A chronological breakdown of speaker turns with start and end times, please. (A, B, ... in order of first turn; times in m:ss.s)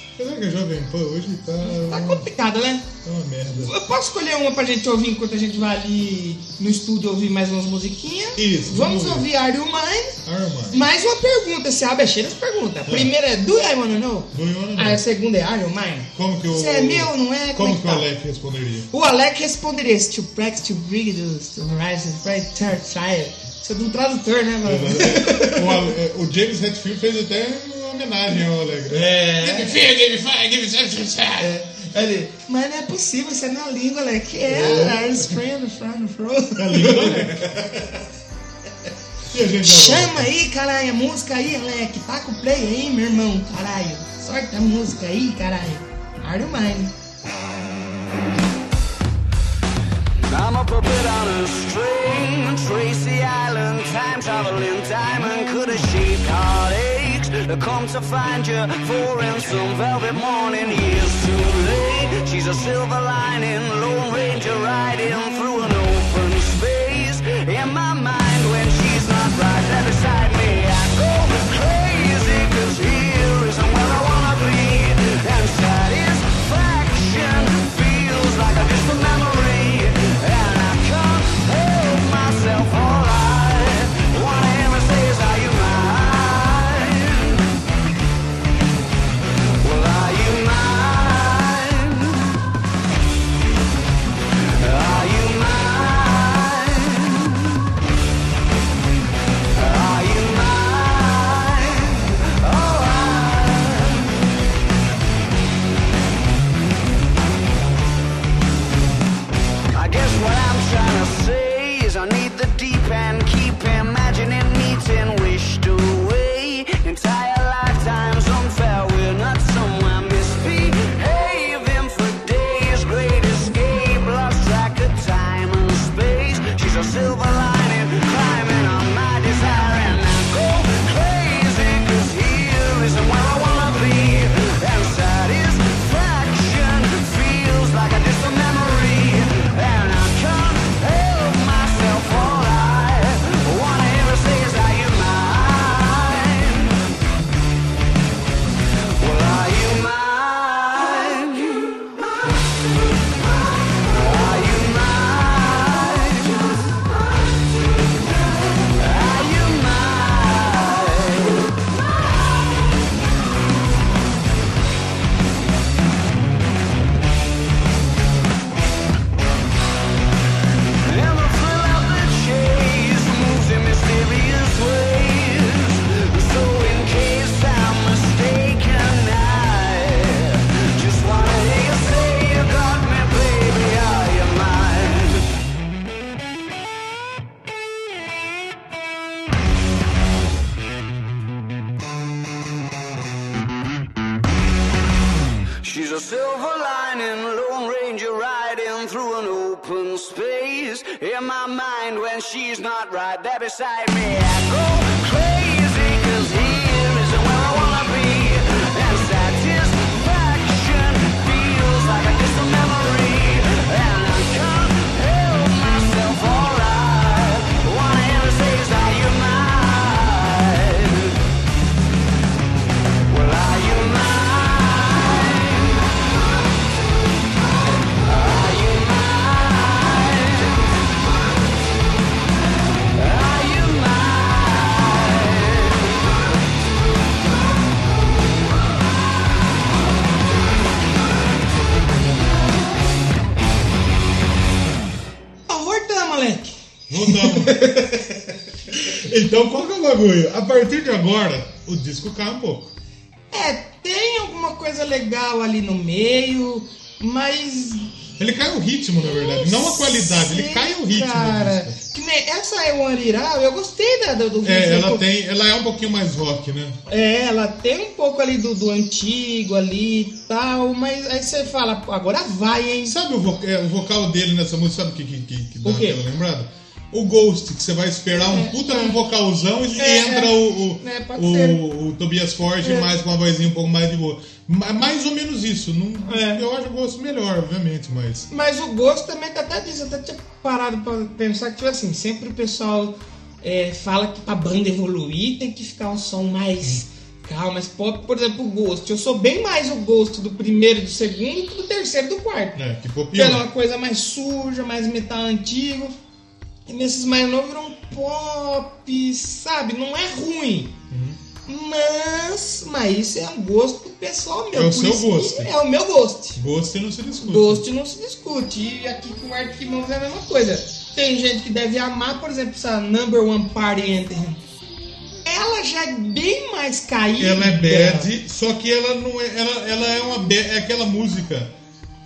0:00.2-0:02.3 A
0:01.6-0:02.9 B
0:03.0-0:03.7 A
0:03.6-0:10.2 B
0:08.4-0:09.3 A
0:10.2-0:10.9 A
0:10.7-0:18.1 B
0:12.8-0:13.1 A
0:14.3-0:15.0 A
0:16.1-0:18.9 A
0:18.9-0:25.9 B
0:24.6-0:31.5 A
0:28.9-0:30.0 B
0:31.4-0:37.9 B
0:34.5-0:35.4 A
0:36.6-0:37.5 A
0:39.3-0:40.3 A
0:39.6-0:46.9 B
0:50.2-1:27.5 C
1:29.6-1:32.4 C
1:34.4-1:37.7 C
1:39.5-1:44.2 C
1:49.7-2:26.8 C
2:28.9-2:32.4 C
2:33.8-2:36.8 C
2:38.5-2:41.6 C
2:50.8-3:05.3 C
3:15.6-3:41.2 C
3:43.1-3:46.0 C
3:48.0-3:50.6 C
3:52.9-3:55.9 C
4:05.5-4:07.8 B
4:06.9-4:08.0 A
4:08.7-4:12.7 A
4:13.3-4:17.9 B
4:18.2-4:21.8 A
4:19.0-4:25.0 B
4:24.4-4:26.8 A
4:26.9-4:32.9 B
4:32.8-4:48.3 A
4:35.6-4:36.0 B
4:38.1-4:39.0 B
4:39.7-4:41.6 B
4:42.6-4:42.9 B
4:46.0-4:46.4 B
4:48.3-5:02.6 B
5:02.5-5:03.4 A
5:03.1-5:06.0 B
5:06.6-5:10.8 B
5:10.9-5:11.2 A
5:11.4-5:16.4 B
5:14.5-5:15.6 A
5:16.4-5:17.6 A
5:17.2-5:24.4 B
5:25.2-5:28.1 B
5:27.2-5:31.5 A